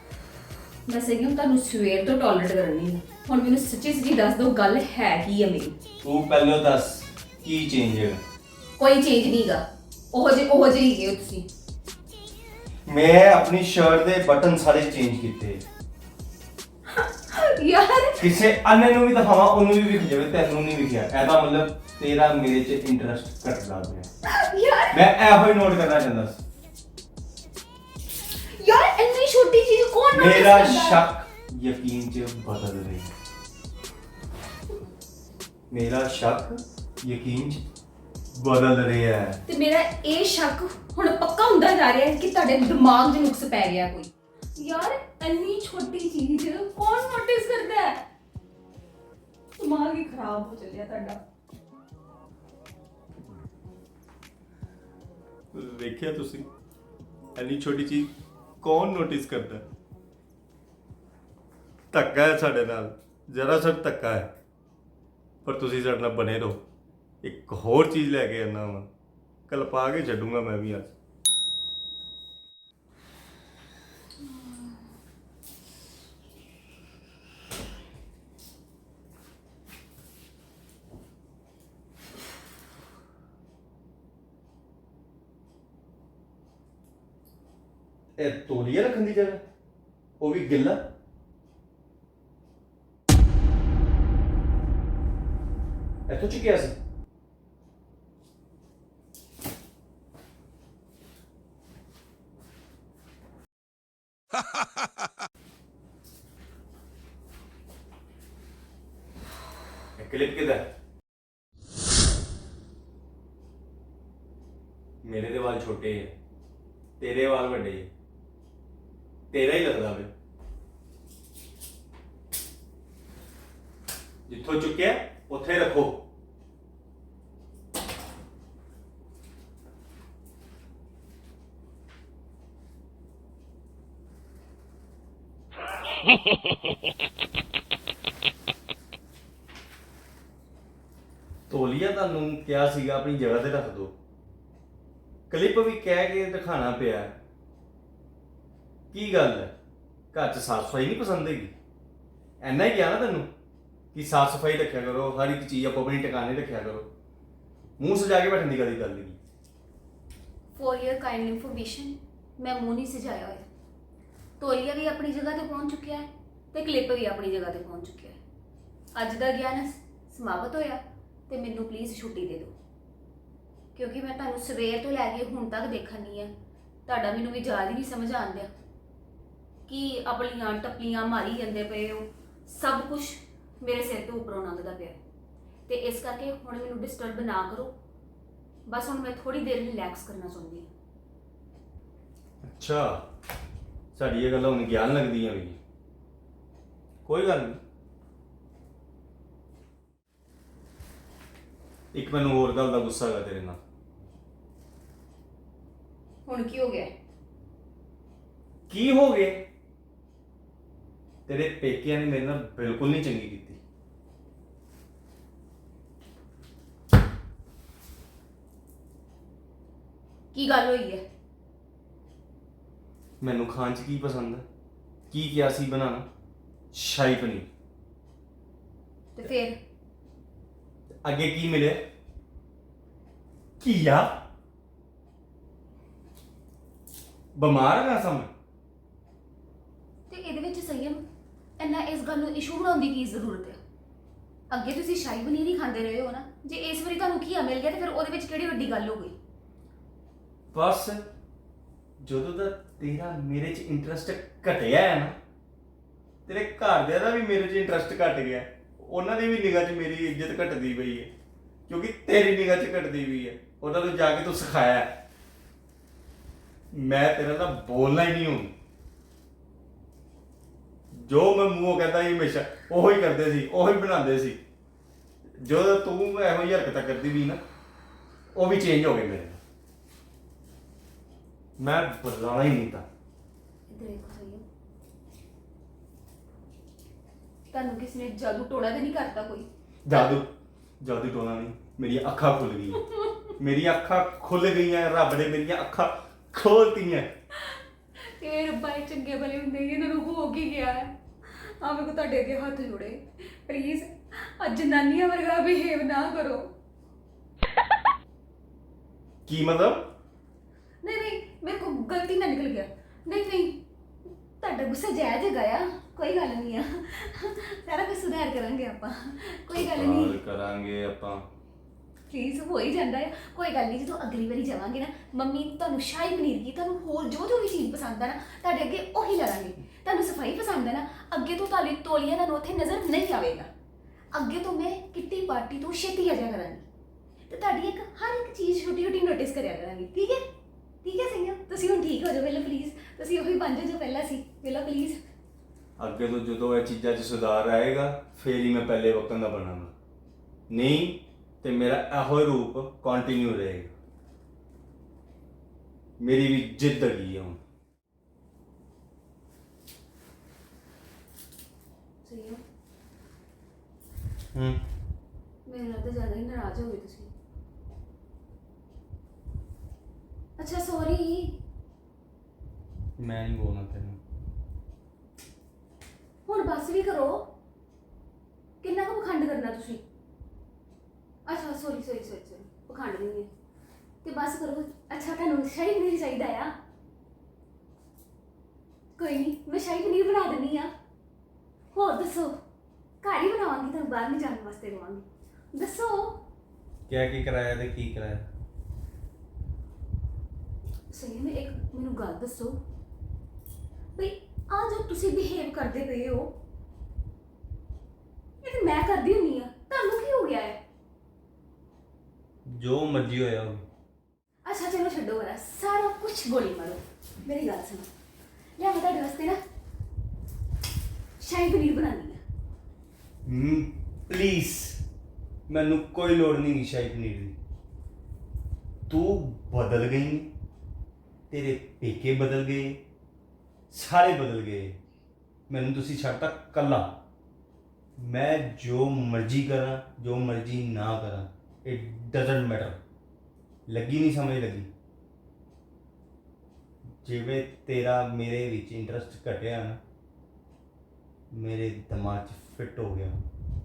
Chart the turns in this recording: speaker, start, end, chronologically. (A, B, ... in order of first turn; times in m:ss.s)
0:00.9-0:05.8 A
0:06.0-0:08.2 B
0:08.8-0:11.5 A
0:12.9-0:15.6 B
0:16.9-0:18.3 A
0:18.2-0:24.1 B
0:24.2-0:25.0 A
0:24.9-0:26.4 B
0:28.5-0:31.0 A
0:30.1-0:33.1 B
0:35.7-0:37.6 B
0:38.3-0:39.4 B
0:39.5-0:48.0 A
0:49.6-0:51.2 A
0:55.5-0:56.5 B
0:57.4-0:59.6 B
1:01.9-1:04.3 B
1:05.4-1:06.6 B
1:07.2-1:08.9 B
1:09.5-1:10.9 B
1:14.4-1:14.7 A
1:28.2-1:29.4 B
1:30.2-1:30.9 B
1:36.1-1:36.8 B
1:50.0-1:50.6 B
1:55.0-1:56.1 B
1:57.0-1:57.9 B
1:59.3-2:00.1 B
2:04.3-2:06.0 B
2:21.5-2:23.9 B
2:25.3-2:27.2 B
2:28.9-2:29.5 B
2:30.1-2:31.5 B
2:32.4-2:33.3 B
2:33.9-2:36.9 B
2:37.8-2:39.2 B
2:40.6-2:43.5 A
2:44.4-2:48.2 A
2:49.0-2:52.6 A
2:53.8-2:56.3 A
2:56.9-2:58.5 A
2:59.7-3:05.0 A
3:05.7-3:07.7 A
3:08.7-3:10.7 A
3:12.4-3:13.0 B
3:14.0-3:15.6 B
3:17.0-3:17.6 B
3:21.9-3:23.6 B
3:26.3-3:26.9 A
3:28.7-3:29.5 B
3:31.3-3:33.6 B
3:40.3-3:41.0 A
3:43.2-3:44.4 B
3:45.1-3:46.1 B
3:46.7-3:47.5 B
3:49.1-3:49.6 A
3:51.0-3:51.8 B
3:53.6-3:54.2 B
3:57.4-3:58.3 B
4:00.1-4:01.0 A
4:01.6-4:03.6 A
4:04.5-4:09.1 A
4:10.5-4:11.0 B
4:12.0-4:15.2 B
4:16.3-4:21.1 B
4:21.7-4:24.9 B
4:26.7-4:28.5 B
4:30.9-4:34.4 B
4:35.4-4:37.4 B
4:38.4-4:39.4 B
4:41.6-4:42.8 B
4:43.7-4:44.4 A
4:47.5-4:49.5 A
4:49.8-4:50.3 B
4:50.8-4:52.8 B
4:52.9-4:53.3 A
4:53.4-4:57.1 B
4:57.4-5:06.5 A
5:09.3-5:09.9 B
5:10.8-5:13.6 A
5:14.4-5:20.2 A
5:19.5-5:21.2 B
5:22.1-5:33.5 A
5:34.1-5:36.6 A
5:37.3-5:40.2 A
5:40.8-5:45.0 A
5:45.8-5:49.7 B
5:50.5-5:53.7 B
5:56.0-5:57.4 B
6:02.0-6:02.4 A
6:04.3-6:04.6 B
6:05.5-6:07.1 A
6:10.4-6:11.4 A
6:13.0-6:14.0 B
6:16.3-6:17.3 A
6:18.6-6:19.8 A
6:21.3-6:23.3 A
6:24.0-6:26.5 A
6:29.0-6:30.7 A
6:31.7-6:32.3 A
6:33.0-6:36.2 A
6:36.9-6:38.3 B
6:40.9-6:42.6 A
6:44.0-6:46.3 A
6:48.4-6:50.6 A
6:52.5-6:53.6 B
6:54.4-6:57.9 A
6:58.6-6:59.4 A
7:01.2-7:02.2 A
7:03.3-7:04.8 B
7:05.5-7:07.4 B
7:08.9-7:10.3 B
7:11.3-7:12.8 B
7:13.7-7:14.8 B
7:15.5-7:17.0 B
7:18.0-7:22.8 B
7:23.7-7:24.7 B
7:27.0-7:29.8 B
7:31.3-7:33.2 B